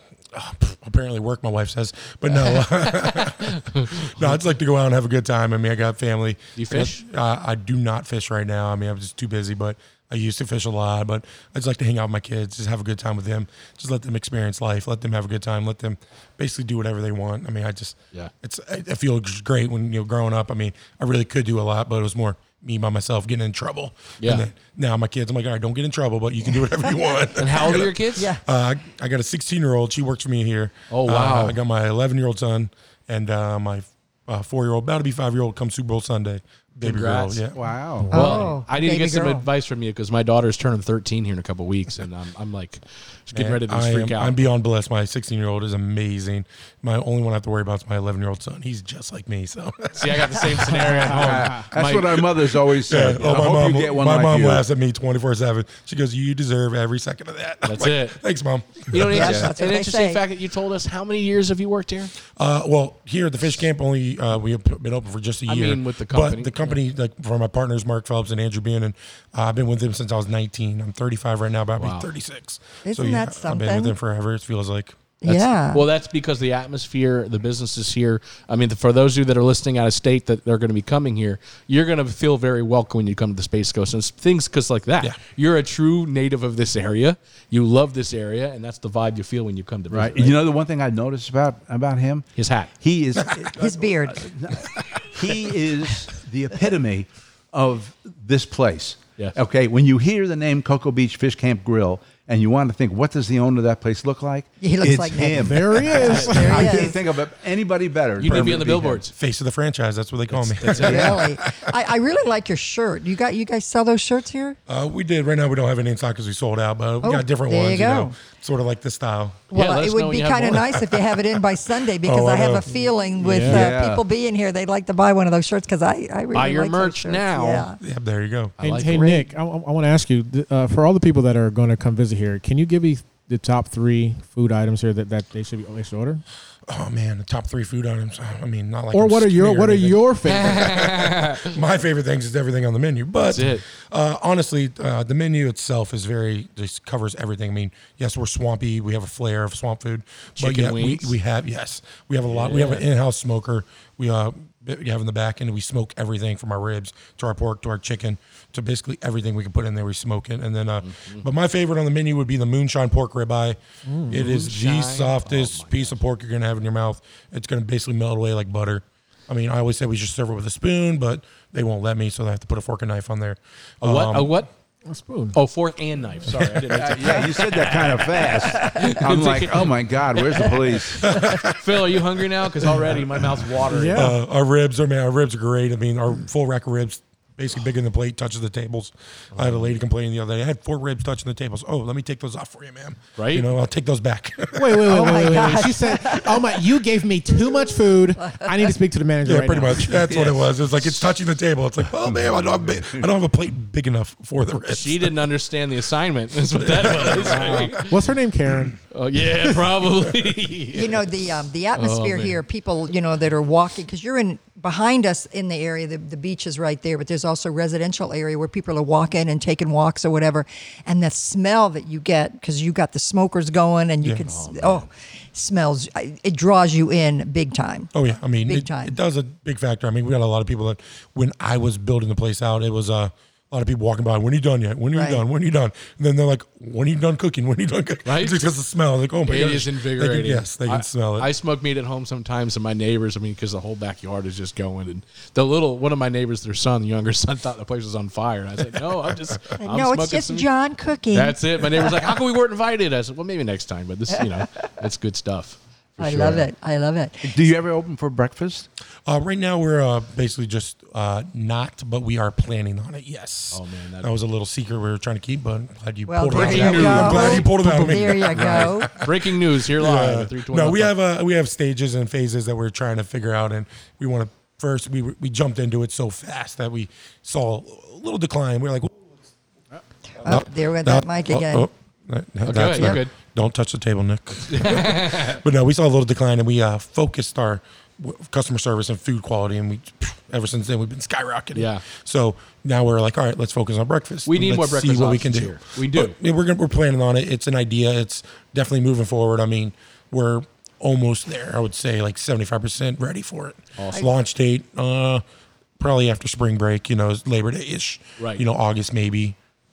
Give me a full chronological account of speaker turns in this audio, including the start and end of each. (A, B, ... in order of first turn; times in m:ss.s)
0:00.3-0:37.6 A
0:02.5-0:04.3 B
0:06.6-0:07.0 B
0:24.2-0:24.4 B
0:27.4-0:28.3 B
0:28.2-0:28.4 C
0:30.9-0:31.6 B
0:36.8-0:37.4 B
0:37.5-0:38.1 D
0:38.0-0:38.4 E
0:38.1-0:39.4 C
0:38.1-0:44.4 B
0:43.3-0:51.3 A
0:50.0-0:52.3 B
0:51.1-0:54.6 D
0:52.8-0:59.4 A
0:57.6-0:58.2 B
0:58.9-1:02.1 B
0:59.0-1:00.2 C
0:59.2-0:59.5 D
1:02.3-1:15.5 A
1:05.5-1:06.8 B
1:11.8-1:12.1 B
1:12.8-1:14.0 C
1:15.2-1:15.8 C
1:15.7-1:30.4 B
1:29.9-1:32.3 D
1:32.4-1:32.7 B
1:32.8-1:49.0 D
1:33.6-1:34.2 C
1:34.7-1:35.0 A
1:44.6-1:47.0 C
1:45.3-1:46.9 E
1:46.0-1:46.5 B
1:48.2-1:49.1 B
1:48.2-1:51.7 A
1:50.3-1:51.3 B
1:50.8-1:51.2 D
1:50.8-1:54.6 C
1:54.7-1:59.5 A
1:57.0-1:58.2 C
1:59.5-2:07.8 C
1:59.5-2:00.8 B
2:02.0-2:02.8 A
2:03.2-2:03.7 E
2:03.4-2:04.0 D
2:06.3-2:07.7 B
2:07.8-2:08.6 A
2:08.6-2:09.3 B
2:08.6-2:16.2 E
2:16.7-2:54.3 A
2:18.9-2:20.7 E
2:20.2-2:21.6 B
2:23.2-2:23.6 B
2:30.4-2:31.1 B
2:32.3-2:32.8 B
2:40.8-2:41.2 B
2:43.8-2:44.2 E
2:44.1-2:46.0 B
2:53.8-2:54.5 B
2:54.9-2:55.4 E
2:55.3-3:04.1 B
2:56.4-2:56.8 A
2:56.7-3:01.2 D
3:01.0-3:02.0 A
3:03.7-3:04.2 E
3:03.9-3:15.6 A
3:09.3-3:09.7 B
3:13.2-3:13.5 B
3:14.5-3:20.1 E
3:14.9-3:16.4 C
3:18.2-3:18.6 C
3:19.2-3:25.1 A
3:20.1-3:21.0 D
3:22.0-3:23.1 D
3:24.7-3:28.0 B
3:26.6-3:27.9 A
3:27.3-3:28.7 E
3:28.9-3:31.1 B
3:30.7-3:47.9 C
3:31.7-3:32.4 B
3:44.2-3:44.9 B
3:47.9-4:01.3 A
3:48.4-3:48.9 C
3:54.9-3:55.2 C
3:58.0-3:58.4 B
3:59.2-4:10.5 B
4:09.6-4:11.9 C
4:11.1-4:16.5 B
4:16.0-4:17.3 C
4:17.2-4:18.7 D
4:19.0-4:39.0 A
4:23.5-4:24.1 B
4:26.1-4:28.9 C
4:26.3-4:27.5 B
4:28.3-4:30.9 B
4:40.2-4:41.7 C
4:40.2-5:05.2 A
4:42.4-4:43.1 B
4:44.5-4:45.4 B
4:51.5-4:51.8 B
4:54.2-4:56.1 B
5:03.8-5:04.1 B
5:05.8-5:09.4 A
5:08.2-5:08.4 B